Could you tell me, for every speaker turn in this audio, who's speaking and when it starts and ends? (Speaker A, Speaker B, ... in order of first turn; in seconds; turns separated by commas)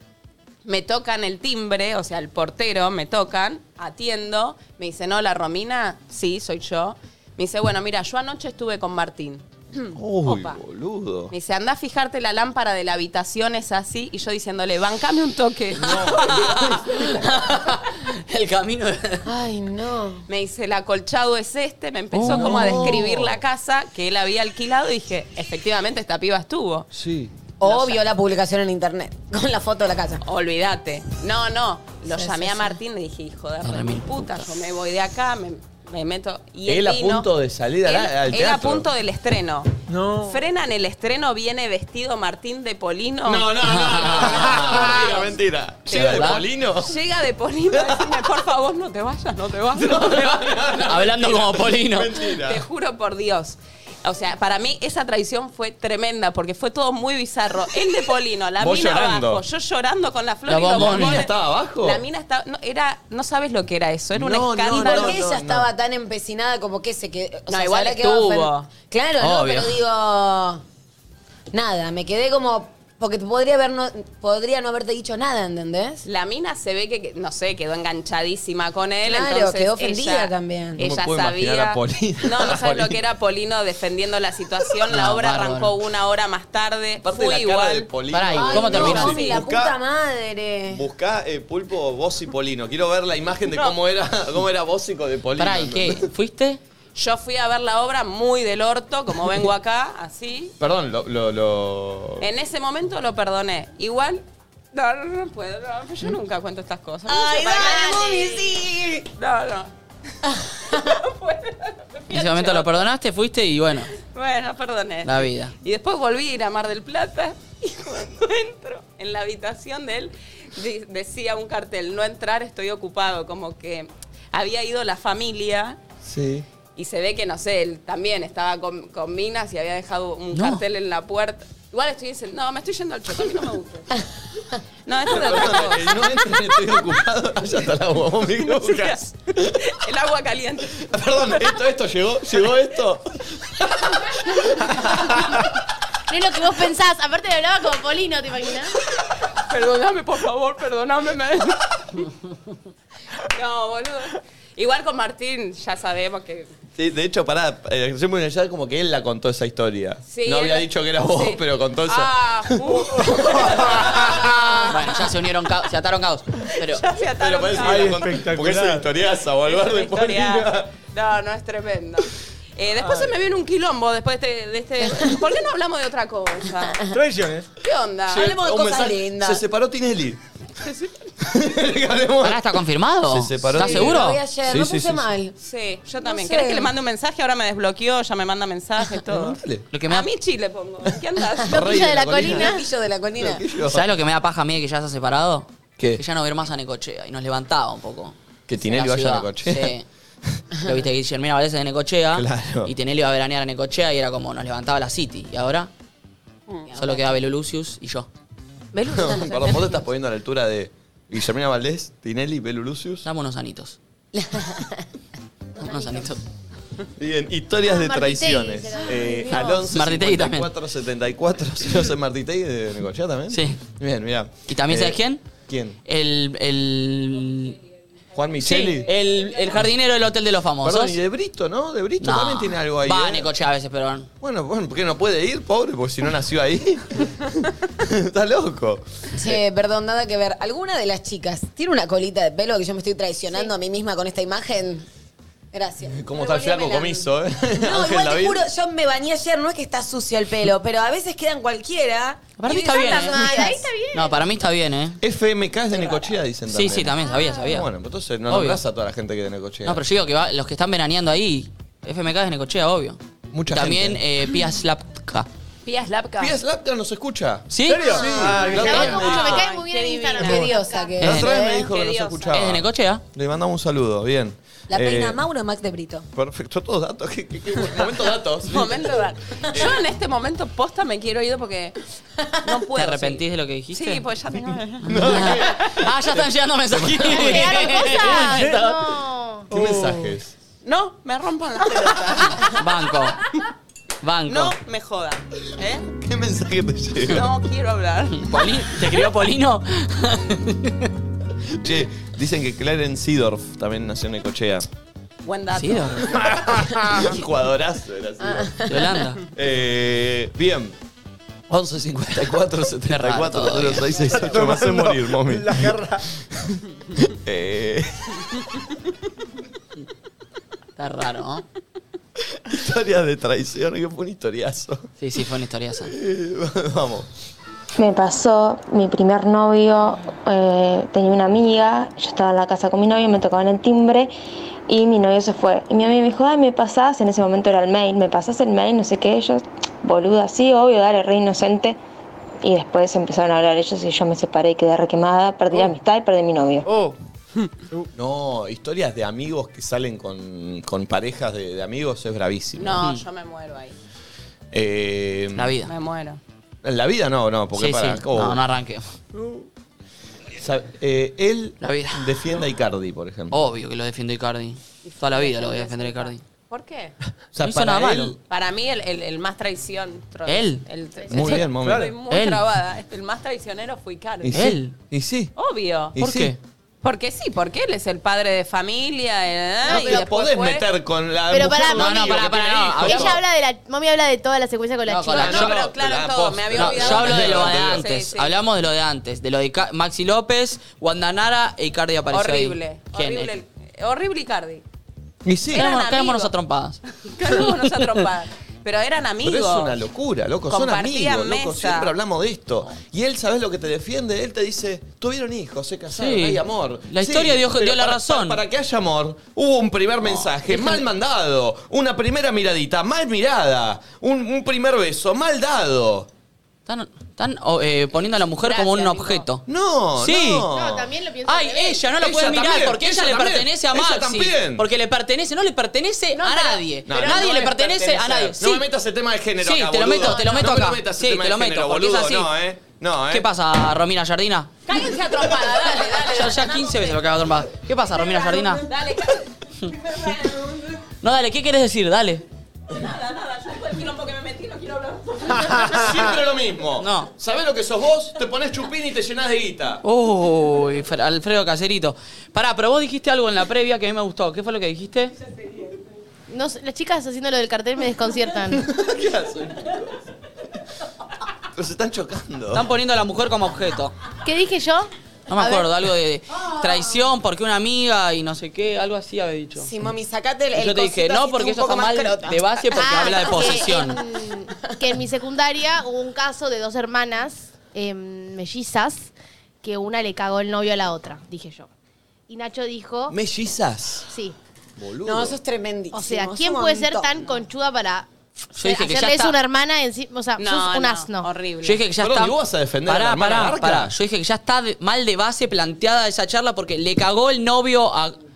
Speaker A: 0.6-10.6, Speaker B: 9.9-11.3, Speaker A: 11.3-16.8, Speaker B: 15.8-16.5, Speaker C: 15.8-19.3, Speaker D: 19.2-20.3, Speaker A: 20.3-26.9, Speaker C: 22.1-22.9, Speaker B: 22.2-23.4, Speaker B: 26.9-27.3, Speaker D: 27.6-30.2, Speaker A: 27.6-28.0, Speaker A: 30.2-37.3, Speaker D: 32.0-32.8, Speaker C: 33.6-34.5, Speaker B: 36.7-38.9, Speaker A: 37.8-50.4, Speaker E: 39.9-40.4, Speaker B: 43.2-46.9, Speaker C: 43.6-45.0, Speaker C: 45.9-46.4, Speaker B: 47.7-48.1, Speaker B: 49.7-52.6, Speaker C: 50.8-52.2, Speaker A: 52.4-65.2, Speaker B: 58.6-59.4, Speaker C: 60.5-61.2, Speaker B: 60.7-62.0, Speaker B: 64.1-65.7, Speaker D: 64.7-70.6, Speaker A: 67.5-68.7, Speaker C: 69.2-69.8, Speaker D: 71.5-76.0, Speaker A: 76.0-87.9, Speaker D: 79.0-80.8, Speaker B: 80.8-83.0, Speaker C: 84.9-85.7, Speaker B: 87.0-89.7, Speaker C: 88.1-89.2, Speaker D: 88.3-90.8, Speaker A: 88.7-89.4, Speaker B: 90.7-96.0, Speaker A: 93.5-93.8, Speaker C: 95.4-96.6, Speaker A: 96.9-100.5, Speaker B: 100.6-102.2, Speaker A: 102.2-109.7, Speaker D: 107.1-109.1, Speaker A: 110.3-112.8, Speaker C: 112.1-113.9, Speaker A: 113.9-125.8, Speaker C: 115.0-115.5, Speaker B: 126.0-126.5, Speaker A: 126.8-134.0, Speaker C: 130.3-130.6, Speaker A: 134.8-136.7, Speaker B: 135.1-139.5, Speaker A: 138.4-141.4, Speaker B: 140.8-145.1, Speaker F: 146.1-148.8, Speaker A: 149.4-152.1, Speaker A: 153.2-156.5, Speaker B: 156.8-164.4, Speaker A: 160.1-164.2, Speaker E: 163.1-164.2, Speaker C: 164.2-166.8, Speaker A: 166.6-168.1, Speaker B: 167.1-170.7, Speaker E: 167.6-168.9, Speaker A: 169.4-176.8, Speaker E: 176.9-177.5, Speaker A: 177.6-178.3, Speaker D: 178.1-179.4, Speaker B: 178.1-180.2, Speaker B: 181.2-182.4, Speaker C: 182.2-184.2, Speaker B: 183.1-185.1, Speaker D: 183.6-185.3, Speaker A: 185.4-189.4, Speaker D: 186.0-186.7, Speaker B: 189.1-189.7, Speaker C: 189.7-190.1, Speaker A: 189.9-191.8, Speaker B: 191.5-192.5, Speaker F: 191.5-192.6, Speaker D: 192.3-193.4, Speaker B: 193.2-193.8, Speaker C: 193.7-199.8, Speaker B: 198.5-199.7, Speaker C: 200.6-205.7, Speaker B: 202.1-202.7, Speaker C: 206.7-208.1, Speaker B: 208.8-213.1, Speaker C: 213.0-213.8, Speaker D: 214.1-214.8, Speaker C: 215.6-216.2, Speaker B: 217.0-225.8, Speaker F: 217.6-219.6, Speaker C: 219.4-220.5, Speaker C: 223.3-223.6, Speaker C: 224.5-225.2, Speaker C: 225.8-227.6, Speaker B: 228.1-228.9, Speaker C: 228.4-231.0, Speaker B: 230.6-233.3, Speaker C: 232.0-234.1, Speaker B: 234.2-239.4, Speaker D: 239.1-244.8, Speaker D: 245.5-253.7, Speaker B: 245.9-248.4, Speaker C: 252.4-253.3, Speaker F: 252.7-254.2, Speaker C: 253.9-255.0, Speaker B: 255.0-259.8, Speaker D: 255.7-256.1, Speaker C: 256.5-257.7, Speaker C: 258.3-258.6, Speaker C: 259.6-265.3, Speaker B: 263.3-264.0, Speaker A: 265.6-266.4, Speaker B: 266.2-269.5, Speaker C: 267.5-268.0, Speaker E: 267.6-268.9, Speaker F: 267.9-271.0, Speaker A: 268.3-270.6, Speaker D: 270.1-271.7, Speaker B: 271.0-275.2, Speaker C: 271.0-271.3, Speaker A: 271.4-272.5, Speaker C: 272.3-273.0, Speaker D: 274.7-276.1, Speaker B: 276.1-279.8, Speaker A: 278.4-281.8, Speaker A: 282.4-285.3, Speaker C: 282.8-284.0, Speaker C: 284.8-288.8, Speaker B: 284.8-287.8, Speaker F: 287.1-289.5, Speaker E: 288.0-288.6, Speaker E: 289.5-290.1, Speaker B: 289.5-290.3, Speaker A: 290.6-292.6, Speaker C: 292.4-293.2, Speaker C: 294.0-294.6, Speaker A: 294.3-295.9, Speaker B: 295.9-297.3, Speaker A: 297.1-298.4, Speaker C: 298.2-300.9, Speaker B: 301.4-304.7, Speaker A: 305.2-306.1, Speaker C: 305.5-306.1, Speaker B: 306.1-308.7, Speaker C: 308.6-309.2, Speaker B: 309.3-310.8, Speaker B: 311.5-318.3, Speaker C: 312.9-313.9, Speaker E: 314.1-316.0, Speaker C: 320.8-321.4, Speaker B: 322.3-324.9, Speaker C: 325.0-325.9, Speaker B: 325.9-327.1, Speaker G: 327.8-334.1, Speaker G: 334.7-341.8, Speaker G: 342.4-346.7, Speaker E: 346.6-346.9, Speaker B: 347.9-352.8, Speaker A: 352.6-353.8, Speaker B: 354.5-355.5, Speaker C: 355.3-355.7, Speaker A: 355.6-356.2, Speaker B: 356.6-358.4, Speaker C: 357.5-358.9, Speaker B: 360.4-363.4, Speaker C: 361.6-362.1, Speaker C: 363.3-366.2, Speaker A: 364.8-366.9, Speaker B: 367.3-368.2, Speaker C: 367.4-368.1, Speaker A: 368.3-374.3, Speaker C: 370.3-370.6, Speaker F: 371.1-371.3, Speaker B: 371.1-371.9, Speaker E: 371.5-371.9, Speaker C: 372.1-372.4, Speaker B: 374.2-375.3, Speaker C: 374.3-374.7, Speaker A: 375.4-375.9, Speaker B: 375.9-376.3, Speaker C: 376.0-376.4, Speaker A: 376.8-380.7, Speaker F: 379.6-380.1, Speaker B: 379.6-383.2, Speaker F: 381.3-385.4, Speaker C: 381.7-383.2, Speaker C: 384.9-385.6, Speaker B: 385.1-387.8, Speaker A: 385.2-388.4, Speaker C: 386.5-393.3, Speaker A: 392.1-394.6, Speaker B: 395.2-395.7, Speaker A: 395.5-396.3, Speaker C: 395.5-396.8, Speaker A: 397.0-399.8, Speaker B: 399.2-416.1, Speaker A: 400.5-401.9, Speaker C: 405.9-408.4, Speaker C: 410.1-410.8, Speaker C: 416.7-419.4, Speaker A: 418.3-419.2, Speaker B: 419.5-420.9, Speaker C: 420.0-420.5, Speaker F: 420.5-421.9, Speaker C: 421.2-428.6, Speaker B: 421.9-424.6, Speaker A: 426.1-428.3, Speaker B: 426.9-427.5, Speaker B: 428.4-433.2, Speaker C: 429.4-432.3, Speaker F: 430.1-430.4, Speaker C: 433.1-434.5, Speaker A: 434.7-437.0, Speaker C: 436.1-438.6, Speaker A: 438.0-439.3, Speaker A: 439.9-440.4, Speaker D: 439.9-440.6, Speaker C: 441.0-442.2, Speaker A: 442.7-445.9, Speaker B: 445.6-449.8, Speaker C: 446.8-447.1, Speaker C: 449.8-455.1, Speaker F: 456.3-458.6, Speaker B: 458.5-460.0, Speaker B: 461.6-462.6, Speaker C: 462.5-463.9, Speaker F: 464.2-465.7, Speaker C: 465.3-469.7, Speaker D: 469.6-472.4, Speaker C: 470.5-474.0, Speaker F: 472.7-481.7, Speaker F: 482.3-483.1, Speaker B: 483.1-484.1, Speaker F: 484.1-484.3, Speaker B: 484.8-485.4, Speaker D: 485.0-487.2, Speaker F: 485.9-491.3, Speaker C: 488.5-489.4, Speaker A: 490.4-491.8, Speaker C: 491.6-498.1, Speaker B: 492.0-493.9